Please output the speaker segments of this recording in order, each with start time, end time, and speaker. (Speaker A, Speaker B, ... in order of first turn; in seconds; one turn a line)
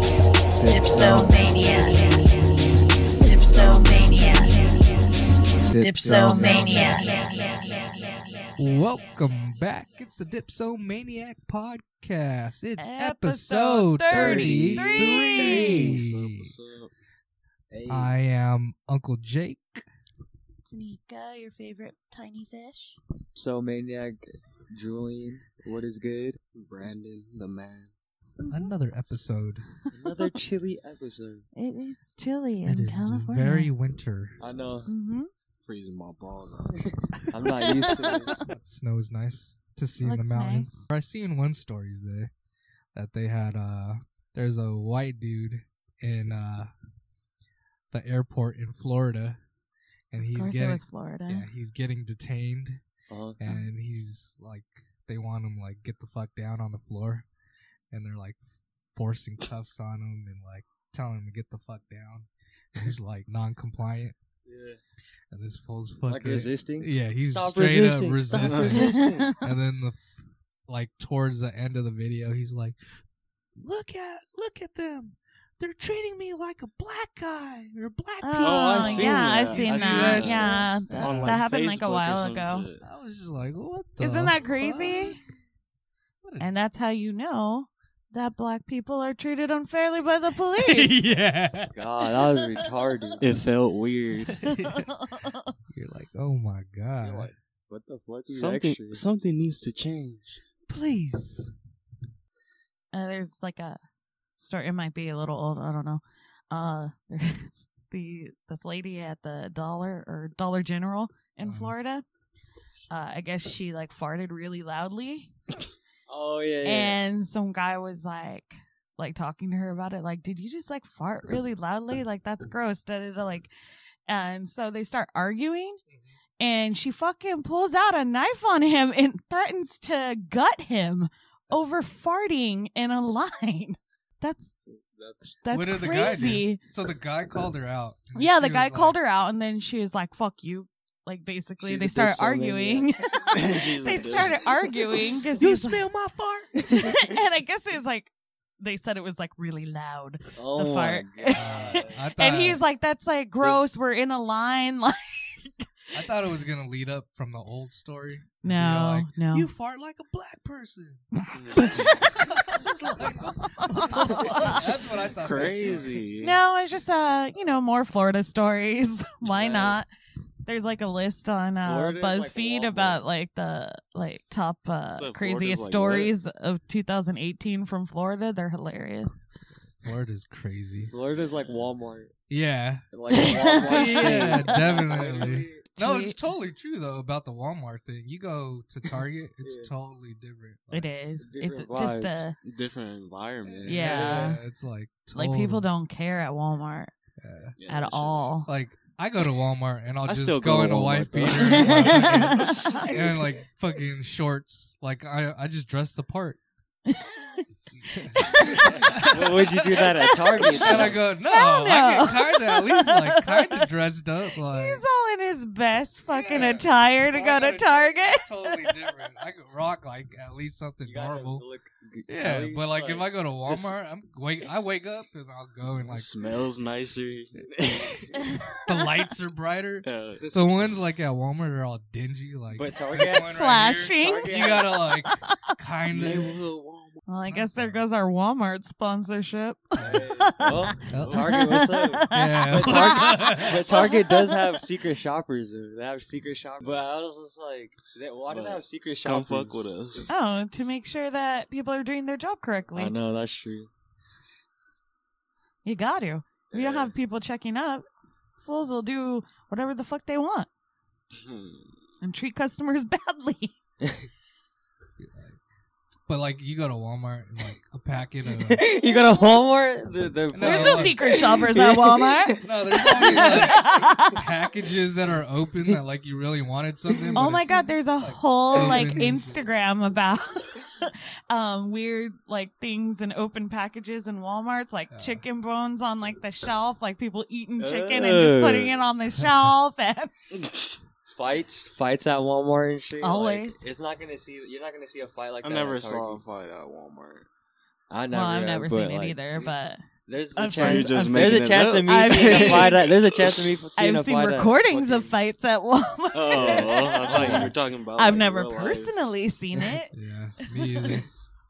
Speaker A: 0.6-1.6
Speaker B: 1.0-2.2
Speaker B: 3.2-4.9
Speaker A: 5.7-7.1
Speaker B: 6.0-8.1
Speaker C: 6.1-7.1
Speaker A: 8.6-16.6
Speaker B: 12.8-15.9
Speaker C: 14.1-16.0
Speaker D: 15.8-16.9
Speaker C: 17.7-18.2
Speaker A: 17.9-19.8
Speaker B: 20.6-23.0
Speaker C: 23.4-26.4
Speaker D: 26.6-27.9
Speaker B: 28.4-28.7
Speaker A: 28.5-29.6
Speaker C: 29.9-31.4
Speaker B: 31.6-33.7
Speaker A: 32.6-34.4
Speaker C: 34.4-34.9
Speaker B: 34.9-35.3
Speaker D: 35.6-37.2
Speaker C: 36.8-38.4
Speaker B: 37.5-38.4
Speaker A: 38.5-42.3
Speaker B: 40.0-40.9
Speaker A: 42.9-46.7
Speaker A: 47.9-49.4
Speaker A: 50.1-52.8
Speaker B: 50.2-51.5
Speaker C: 53.1-53.4
Speaker A: 53.4-57.3
Speaker A: 57.9-58.4
Speaker A: 58.9-64.2
Speaker C: 64.5-64.8
Speaker A: 65.3-72.8
Speaker C: 66.1-69.4
Speaker D: 68.4-68.7
Speaker B: 68.6-69.4
Speaker A: 73.6-81.4
Speaker B: 78.2-82.7
Speaker D: 78.4-82.8
Speaker A: 82.8-85.2
Speaker B: 84.0-85.2
Speaker A: 86.2-86.5
Speaker B: 86.4-91.0
Speaker A: 90.6-91.8
Speaker C: 91.8-93.4
Speaker D: 93.2-94.5
Speaker A: 94.3-95.0
Speaker B: 94.4-95.4
Speaker A: 95.7-97.3
Speaker C: 97.0-99.0
Speaker D: 98.3-100.4
Speaker A: 100.7-101.5
Speaker B: 102.9-103.8
Speaker B: 104.4-112.0
Speaker A: 111.4-111.8
Speaker B: 112.9-115.3
Speaker C: 116.1-117.0
Speaker B: 116.6-123.5
Speaker B: 124.1-125.8
Speaker A: 125.9-126.1
Speaker B: 126.4-134.6
Speaker B: 135.4-136.6
Speaker A: 135.5-139.0
Speaker B: 138.2-145.8
Speaker C: 141.6-142.9
Speaker D: 143.3-144.5
Speaker A: 145.4-147.0
Speaker B: 146.7-155.7
Speaker C: 150.4-152.0
Speaker A: 151.4-152.6
Speaker A: 155.9-161.0
Speaker B: 158.4-159.5
Speaker B: 161.2-162.3
Speaker D: 161.3-162.0
Speaker A: 161.6-166.0
Speaker B: 163.2-164.7
Speaker D: 165.1-166.4
Speaker B: 166.2-169.9
Speaker C: 169.2-169.8
Speaker B: 170.4-179.2
Speaker C: 171.6-173.0
Speaker D: 174.9-176.1
Speaker A: 179.8-180.9
Speaker C: 180.9-182.2
Speaker A: 182.3-182.8
Speaker C: 182.9-185.6
Speaker B: 183.1-184.9
Speaker A: 183.6-190.9
Speaker B: 185.8-186.2
Speaker C: 189.4-189.7
Speaker B: 190.7-192.4
Speaker C: 191.2-192.2
Speaker D: 192.4-194.1
Speaker B: 193.7-194.4
Speaker A: 193.7-195.7
Speaker C: 193.7-194.3
Speaker B: 195.1-196.9
Speaker A: 197.2-197.6
Speaker D: 197.6-198.3
Speaker B: 197.7-198.5
Speaker A: 198.5-206.4
Speaker D: 200.1-202.8
Speaker B: 201.4-202.8
Speaker B: 206.9-207.4
Speaker A: 207.8-209.9
Speaker B: 208.0-209.1
Speaker C: 208.4-211.0
Speaker B: 209.7-213.7
Speaker A: 210.5-214.8
Speaker B: 214.3-218.8
Speaker A: 216.1-221.4
Speaker C: 220.8-223.1
Speaker A: 222.1-226.1
Speaker D: 223.5-223.7
Speaker D: 225.9-228.1
Speaker A: 228.7-236.4
Speaker D: 229.8-230.7
Speaker C: 230.2-230.5
Speaker C: 232.5-234.8
Speaker B: 233.0-235.5
Speaker D: 235.9-237.0
Speaker B: 237.1-244.6
Speaker A: 237.2-237.8
Speaker A: 239.8-240.2
Speaker C: 239.8-249.7
Speaker A: 240.8-241.5
Speaker D: 241.0-241.2
Speaker A: 242.1-243.6
Speaker D: 248.3-250.1
Speaker B: 250.1-252.9
Speaker C: 252.8-253.7
Speaker B: 255.7-257.9
Speaker C: 256.5-256.9
Speaker B: 258.4-260.5
Speaker D: 261.1-261.7
Speaker B: 262.0-263.6
Speaker A: 265.0-265.4
Speaker A: 266.1-268.6
Speaker C: 268.4-273.8
Speaker A: 270.3-271.0
Speaker B: 270.4-274.1
Speaker A: 272.4-279.4
Speaker C: 276.9-277.3
Speaker B: 277.1-290.1
Speaker A: 284.9-285.2
Speaker C: 287.6-288.8
Speaker A: 289.2-289.5
Speaker C: 291.1-296.2
Speaker B: 293.0-293.6
Speaker D: 295.4-297.3
Speaker C: 297.9-299.2
Speaker B: 298.1-299.8
Speaker C: 300.1-305.1
Speaker B: 300.4-302.9
Speaker D: 300.4-303.5
Speaker B: 303.8-311.0
Speaker D: 306.1-308.9
Speaker C: 306.4-307.5
Speaker A: 307.1-307.5
Speaker A: 309.9-311.1